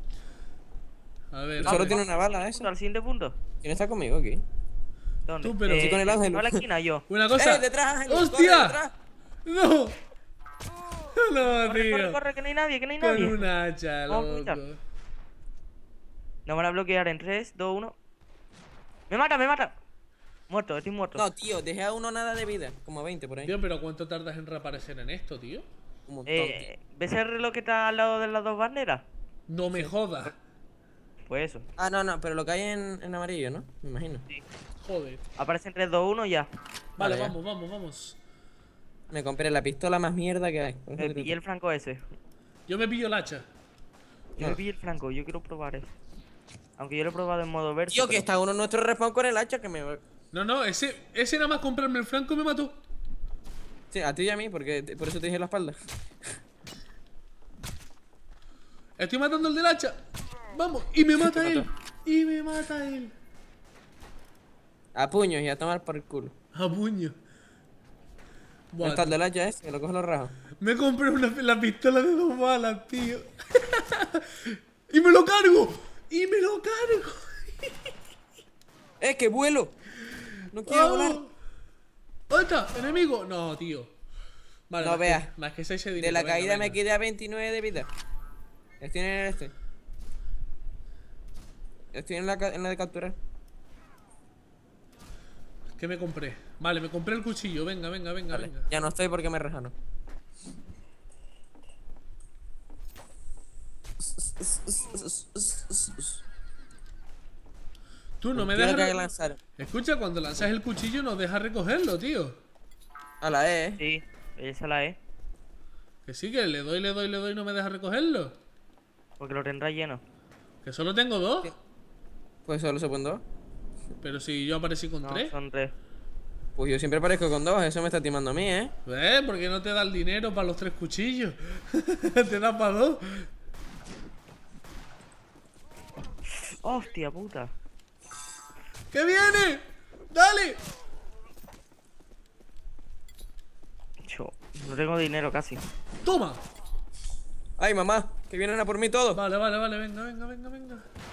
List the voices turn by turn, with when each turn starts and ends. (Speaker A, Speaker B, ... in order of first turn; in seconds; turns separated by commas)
Speaker A: 1.3-2.0, Speaker B: 1.6-2.7, Speaker C: 1.6-3.4, Speaker B: 3.6-4.4, Speaker C: 5.3-7.0, Speaker A: 5.4-6.0, Speaker B: 5.7-6.6, Speaker A: 7.1-8.8, Speaker B: 7.4-8.9, Speaker A: 9.5-10.0, Speaker A: 11.1-12.2, Speaker C: 11.6-13.5, Speaker A: 13.0-14.8, Speaker C: 14.1-14.6, Speaker C: 16.5-17.9, Speaker C: 19.1-19.7, Speaker C: 20.5-21.3, Speaker B: 21.2-23.6, Speaker A: 23.5-25.7, Speaker B: 26.1-26.7, Speaker C: 26.3-29.0, Speaker A: 29.5-30.3, Speaker C: 31.3-31.7, Speaker B: 31.8-34.3, Speaker A: 34.8-35.2, Speaker C: 35.4-36.5, Speaker A: 37.0-38.2, Speaker B: 37.0-37.4, Speaker B: 39.1-41.4, Speaker C: 41.0-42.0, Speaker A: 42.7-43.5, Speaker C: 44.4-45.9, Speaker C: 46.8-48.3, Speaker B: 47.9-50.0, Speaker A: 50.3-52.8, Speaker B: 53.9-55.8, Speaker A: 59.0-60.0, Speaker A: 60.5-63.1, Speaker B: 61.2-61.7, Speaker B: 65.0-66.3, Speaker A: 66.5-67.2, Speaker A: 68.7-69.2, Speaker B: 68.8-70.3, Speaker A: 70.6-77.9, Speaker B: 79.0-79.8, Speaker B: 80.5-81.2, Speaker A: 80.7-81.3, Speaker A: 82.3-83.9, Speaker A: 84.7-86.8, Speaker B: 84.8-85.3, Speaker B: 86.0-87.9, Speaker B: 88.8-89.5, Speaker B: 91.9-93.2, Speaker A: 95.8-98.7, Speaker B: 98.3-99.8, Speaker B: 104.0-106.2, Speaker A: 108.2-109.0, Speaker B: 108.3-109.4, Speaker A: 109.6-112.3, Speaker B: 113.2-113.8, Speaker C: 113.8-115.0, Speaker A: 116.1-118.3, Speaker C: 119.2-120.0, Speaker A: 120.7-121.6, Speaker B: 122.5-123.2, Speaker A: 124.0-125.3, Speaker C: 125.0-125.7, Speaker B: 126.6-128.7, Speaker A: 128.9-133.3, Speaker C: 136.4-137.5, Speaker A: 138.9-140.6, Speaker C: 144.0-145.6, Speaker A: 146.1-146.4, Speaker B: 147.6-149.2, Speaker A: 149.2-150.8